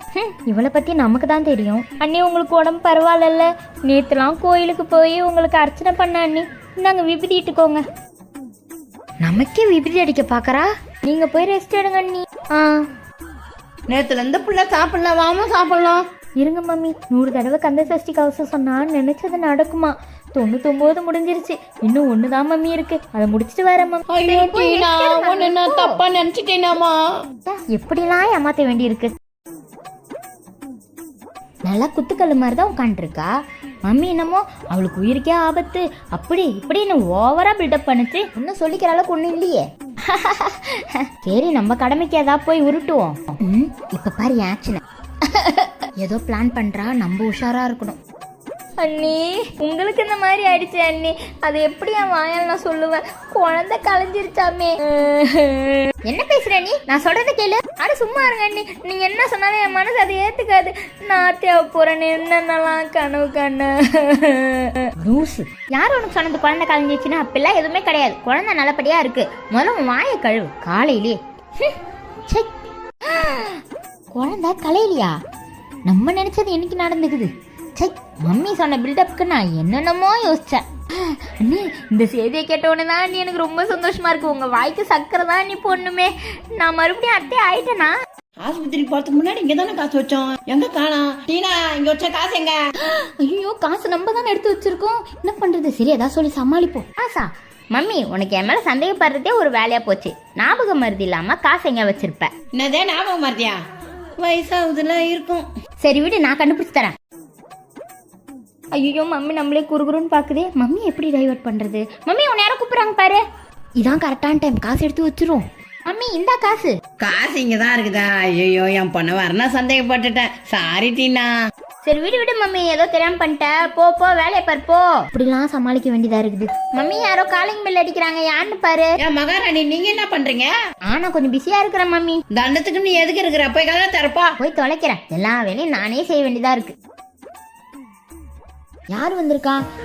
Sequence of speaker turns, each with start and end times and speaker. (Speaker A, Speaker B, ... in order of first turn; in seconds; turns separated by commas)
Speaker A: 0.1-7.8, Speaker A: 9.2-12.8, Speaker B: 13.9-16.0, Speaker A: 16.4-26.0, Speaker B: 24.1-27.0, Speaker A: 27.4-29.1, Speaker A: 31.6-33.3, Speaker A: 33.9-48.0, Speaker A: 48.8-71.8, Speaker A: 73.0-73.6, Speaker A: 74.1-75.2, Speaker A: 75.9-88.0, Speaker B: 88.4-92.6, Speaker A: 92.8-102.3, Speaker B: 102.5-103.6, Speaker B: 104.2-105.5, Speaker A: 105.8-107.0, Speaker A: 108.7-113.2, Speaker A: 113.8-116.7, Speaker B: 117.0-121.3, Speaker A: 121.8-128.9, Speaker B: 129.0-130.5, Speaker A: 130.9-132.2, Speaker B: 132.3-134.3, Speaker A: 134.4-136.7, Speaker A: 138.9-139.6